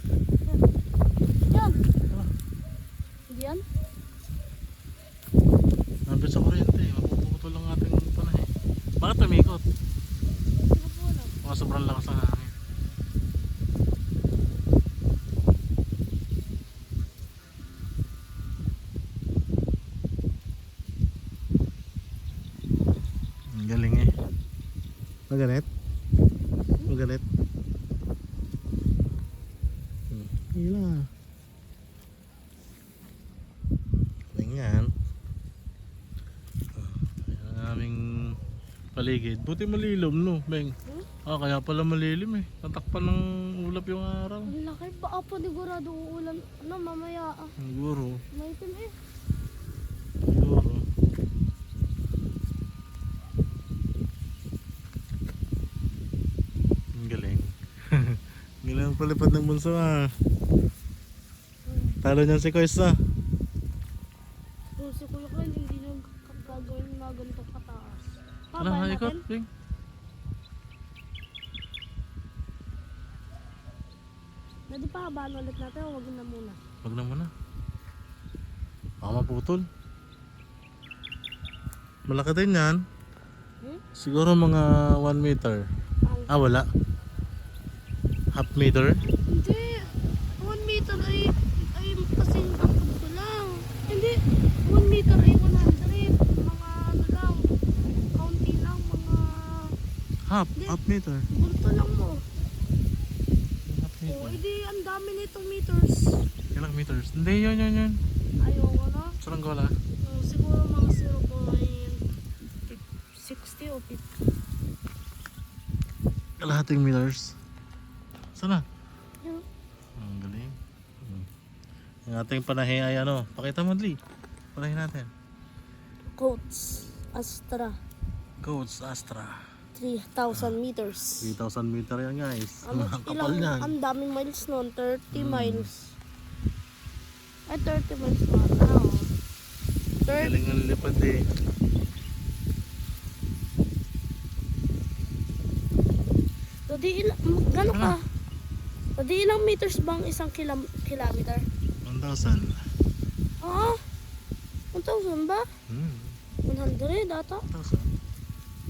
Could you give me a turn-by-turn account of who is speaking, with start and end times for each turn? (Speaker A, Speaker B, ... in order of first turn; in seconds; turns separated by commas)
Speaker A: 1.5-1.8, Speaker A: 3.3-3.6, Speaker B: 6.1-8.5, Speaker B: 9.0-9.6, Speaker A: 10.7-11.3, Speaker B: 11.4-12.5, Speaker B: 23.5-24.1, Speaker B: 25.3-25.7, Speaker B: 26.9-27.2, Speaker B: 30.1-31.1, Speaker B: 34.3-34.9, Speaker B: 36.8-38.4, Speaker B: 39.0-44.5, Speaker A: 44.5-47.5, Speaker B: 47.6-48.2, Speaker A: 48.3-48.9, Speaker B: 50.3-50.8, Speaker B: 57.0-60.1, Speaker A: 61.7-62.0, Speaker B: 62.0-63.0, Speaker A: 64.8-69.2, Speaker B: 68.6-69.5, Speaker A: 74.7-76.6, Speaker B: 76.8-77.3, Speaker B: 79.0-79.7, Speaker B: 82.1-82.8, Speaker B: 84.0-85.6, Speaker A: 86.1-86.3, Speaker B: 86.3-86.7, Speaker B: 88.3-89.0, Speaker A: 89.1-97.5, Speaker A: 98.1-99.8, Speaker B: 100.3-101.3, Speaker A: 101.3-102.2, Speaker B: 103.7-104.4, Speaker A: 104.1-106.2, Speaker B: 106.5-108.0, Speaker A: 108.4-109.2, Speaker B: 109.2-109.8, Speaker A: 110.0-112.0, Speaker A: 112.7-114.1, Speaker B: 116.4-117.3, Speaker B: 118.4-118.6, Speaker B: 120.0-121.3, Speaker B: 122.1-124.0, Speaker B: 124.5-125.1, Speaker A: 126.2-127.8, Speaker B: 128.4-129.4, Speaker A: 129.8-131.3, Speaker B: 131.2-133.7, Speaker A: 132.6-135.8, Speaker B: 135.1-135.7, Speaker A: 137.5-139.1, Speaker A: 140.1-140.3, Speaker B: 140.1-141.2, Speaker A: 146.7-148.0, Speaker B: 147.7-148.0, Speaker A: 149.0-151.5, Speaker B: 151.8-152.6, Speaker A: 153.4-153.8, Speaker A: 154.7-155.5, Speaker B: 155.7-156.2, Speaker A: 156.5-157.5, Speaker B: 157.5-157.9